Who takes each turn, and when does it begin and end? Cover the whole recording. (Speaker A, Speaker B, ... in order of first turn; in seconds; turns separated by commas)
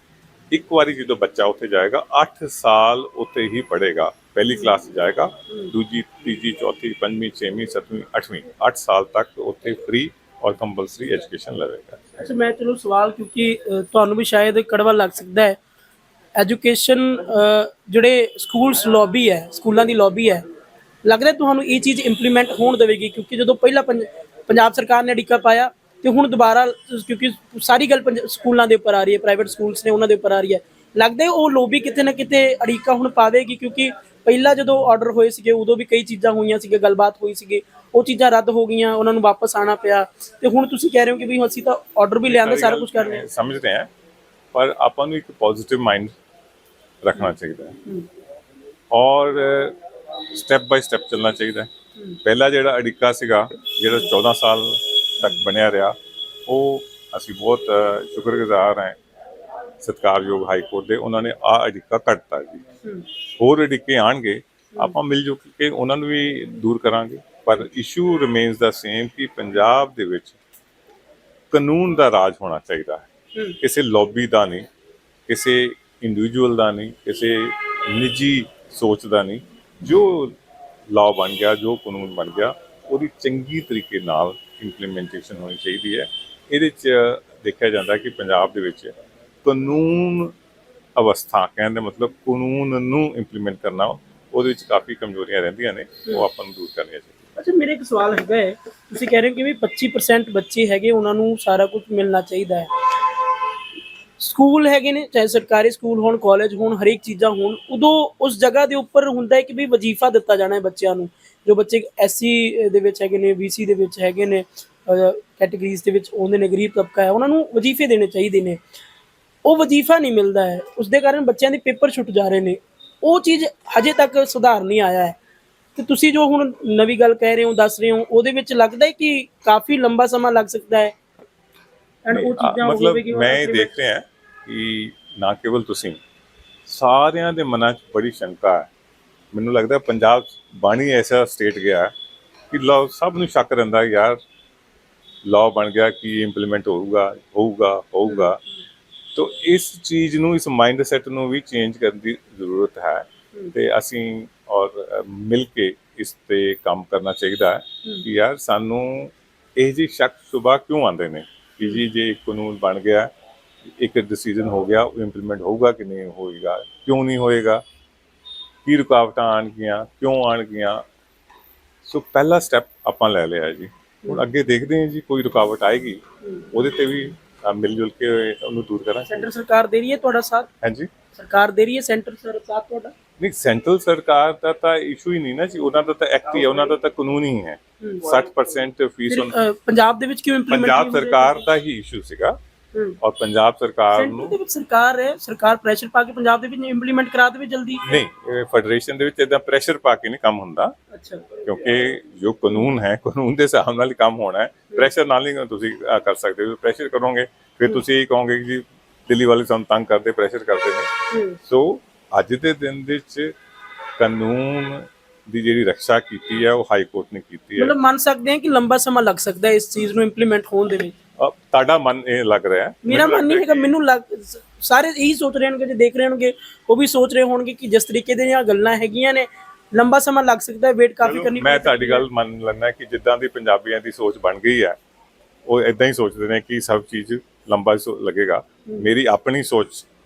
Speaker A: 0.5-12.3, Speaker B: 4.5-4.8, Speaker B: 12.2-15.6, Speaker B: 16.4-20.4, Speaker B: 21.1-43.2, Speaker A: 42.3-43.9, Speaker A: 44.5-46.1, Speaker A: 47.0-47.8, Speaker A: 48.9-49.8, Speaker A: 50.3-51.7, Speaker A: 52.2-56.0, Speaker A: 56.5-59.0, Speaker A: 59.8-62.6, Speaker A: 63.4-70.4, Speaker A: 71.5-73.1, Speaker A: 73.6-74.7, Speaker A: 75.3-80.3, Speaker A: 80.9-88.9, Speaker A: 89.4-90.3, Speaker A: 91.0-97.2, Speaker B: 97.4-102.7, Speaker B: 104.2-118.6, Speaker B: 119.5-125.2, Speaker B: 125.8-130.9, Speaker B: 132.1-133.7, Speaker A: 132.1-136.0, Speaker A: 136.7-138.7, Speaker A: 139.3-141.9, Speaker A: 142.5-144.2, Speaker A: 145.2-148.4, Speaker B: 148.1-148.3, Speaker A: 149.2-163.1, Speaker A: 163.8-167.6, Speaker A: 168.7-170.8, Speaker A: 171.9-179.3, Speaker B: 179.1-180.5, Speaker A: 180.6-180.9, Speaker B: 181.1-182.9, Speaker A: 183.2-189.3, Speaker B: 189.1-191.5, Speaker A: 190.5-192.4, Speaker A: 193.0-194.4, Speaker B: 193.9-198.0, Speaker A: 197.8-200.8, Speaker B: 200.9-201.3, Speaker A: 201.4-210.9, Speaker B: 211.1-211.4, Speaker A: 211.4-213.3, Speaker A: 214.0-217.8, Speaker B: 217.6-221.0, Speaker A: 221.2-223.7, Speaker B: 222.8-232.1, Speaker A: 231.0-234.8, Speaker A: 235.5-239.9